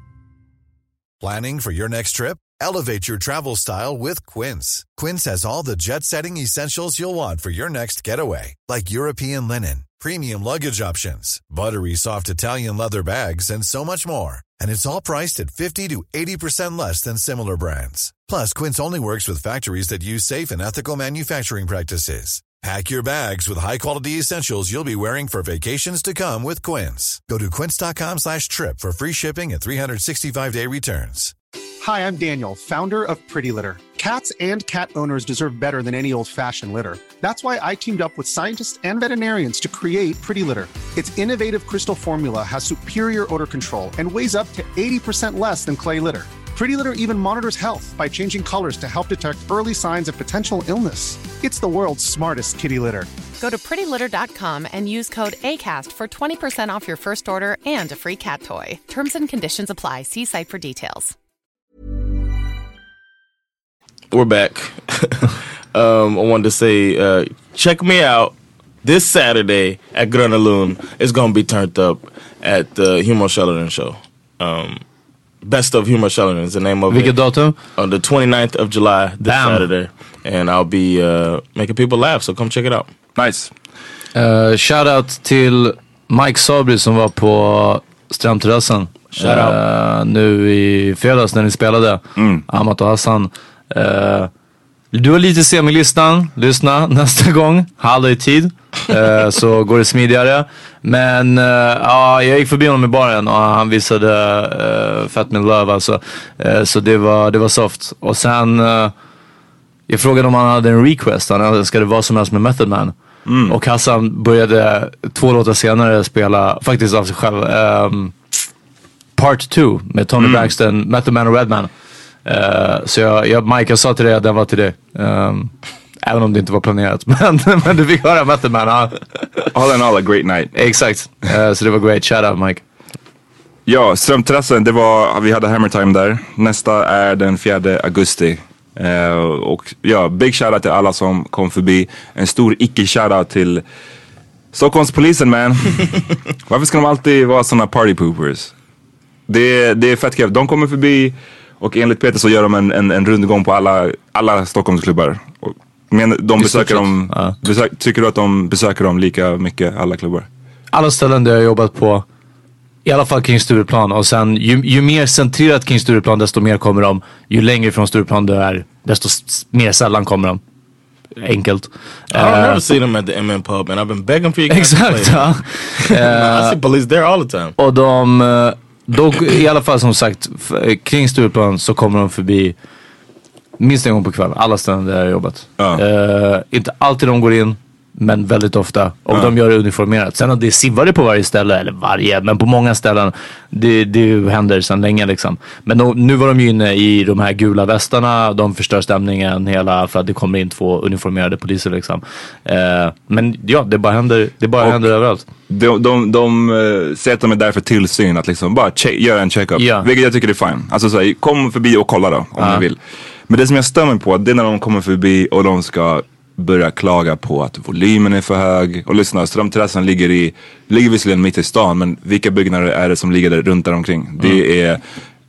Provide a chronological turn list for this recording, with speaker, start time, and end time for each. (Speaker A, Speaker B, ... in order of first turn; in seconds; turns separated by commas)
Speaker A: 1.2-31.3, Speaker B: 31.8-53.1, Speaker C: 53.4-61.1, Speaker D: 64.1-74.8, Speaker D: 75.4-77.2, Speaker E: 76.9-77.6, Speaker D: 77.8-82.9, Speaker E: 79.2-79.7, Speaker F: 83.2-83.5, Speaker E: 84.2-94.3, Speaker D: 89.2-89.6, Speaker F: 92.2-92.4, Speaker E: 94.9-108.9, Speaker E: 109.9-112.9, Speaker F: 113.3-113.6, Speaker E: 113.5-118.2, Speaker E: 119.2-121.7, Speaker F: 120.2-120.5, Speaker E: 122.2-125.5, Speaker E: 126.0-129.5, Speaker F: 129.5-130.6, Speaker E: 130.6-132.6, Speaker F: 133.7-143.6, Speaker F: 144.5-148.5, Speaker F: 149.3-160.3, Speaker E: 156.4-157.3, Speaker E: 160.7-162.1, Speaker E: 162.8-170.4, Speaker E: 171.2-172.6, Speaker D: 172.1-177.6, Speaker E: 174.5-176.6, Speaker E: 177.6-182.6, Speaker E: 183.6-205.2, Speaker F: 205.5-212.8, Speaker E: 209.6-209.9, Speaker E: 212.4-212.7, Speaker F: 213.3-224.8